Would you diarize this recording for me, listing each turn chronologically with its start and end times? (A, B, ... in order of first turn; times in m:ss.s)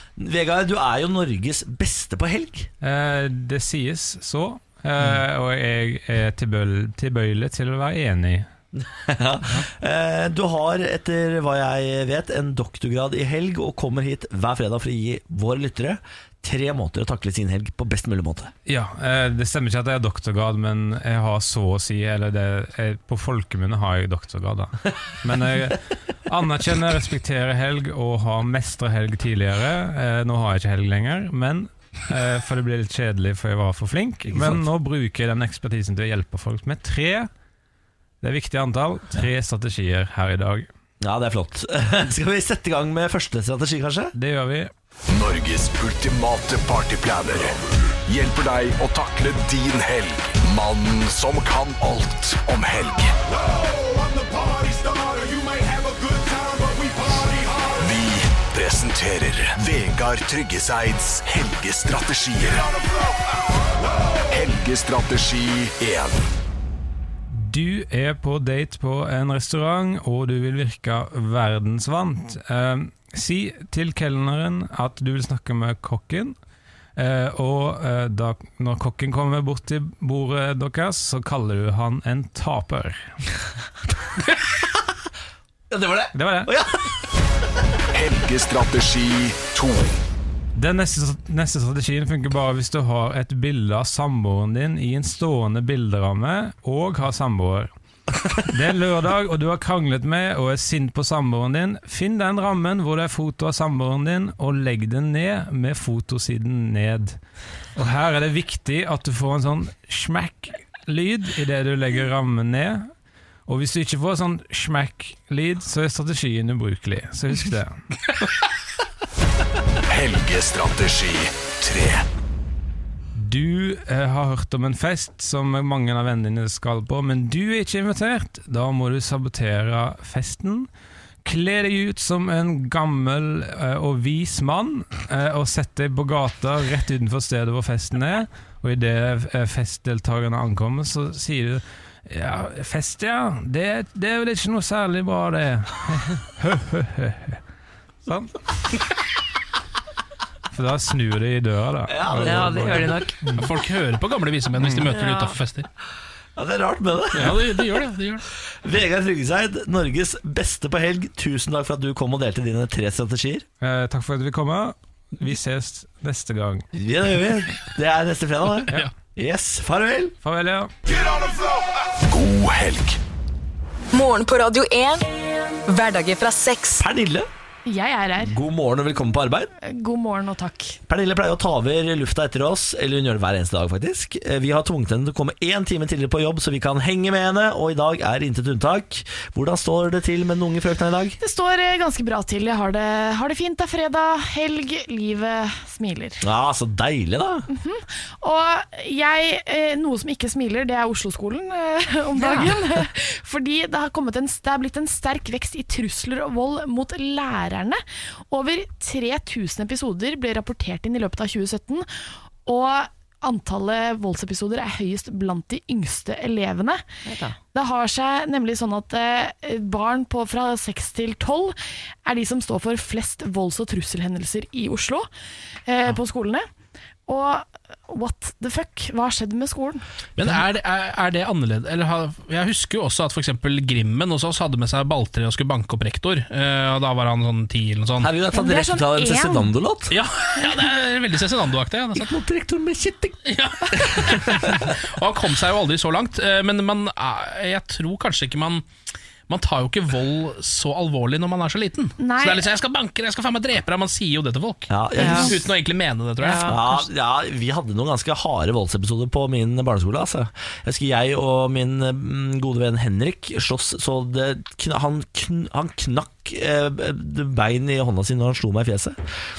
0:00.2-0:02.7 A
0:02.8-0:08.5 B
0:08.8-0:18.5 A
0:18.7-0:37.3 B
0:34.3-0:34.6 A
0:38.2-0:40.7 B
0:41.0-0:44.1 A
0:44.1-0:44.7 B
0:45.1-1:03.0 C
1:04.3-1:06.3 C
1:07.3-1:16.4 B
1:17.0-1:23.1 B
1:25.7-1:26.9 A
1:26.1-1:26.6 B
1:27.9-1:30.0 C
1:30.6-1:37.7 B
1:38.5-1:47.2 B
1:47.8-1:52.9 B
1:53.5-1:57.8 B
1:59.9-2:02.1 C
2:03.1-2:10.7 B
2:11.2-2:27.4 B
2:28.0-2:28.9 B
2:30.5-2:33.5 B
2:31.9-2:32.9 A
2:32.2-2:33.2 D
2:33.4-2:35.7 E
2:34.6-2:35.0 B
2:34.8-2:35.4 D
2:36.4-2:37.5 A
2:37.1-2:38.2 E
2:38.6-2:43.4 A
2:43.6-2:46.7 B
2:46.7-2:50.2 A
2:50.2-2:50.7 B
2:50.9-2:53.0 C
2:53.9-2:55.0 F
2:55.7-2:56.8 F
2:56.8-2:57.3 A
2:57.7-2:58.4 G
2:58.2-2:59.5 A
2:59.6-3:00.8 G
3:00.9-3:11.2 A
3:11.2-3:16.2 G
3:16.2-3:17.4 A
3:17.5-3:31.9 G
3:22.2-3:22.6 D
3:32.4-3:36.8 G
3:37.0-3:37.4 D
3:37.5-3:45.1 G
3:45.7-3:46.5 G
3:47.1-3:49.8 G
3:50.2-3:58.1 E
3:58.0-4:00.0 A
3:58.3-3:59.5 G
3:59.9-4:02.1 E
4:02.0-4:03.2 A
4:03.3-4:08.7 E
4:03.7-4:04.5 A
4:09.3-4:16.8 E
4:12.0-4:12.4 G
4:14.7-4:15.5 A
4:15.0-4:15.3 D
4:16.2-4:16.7 D
4:16.4-4:29.0 A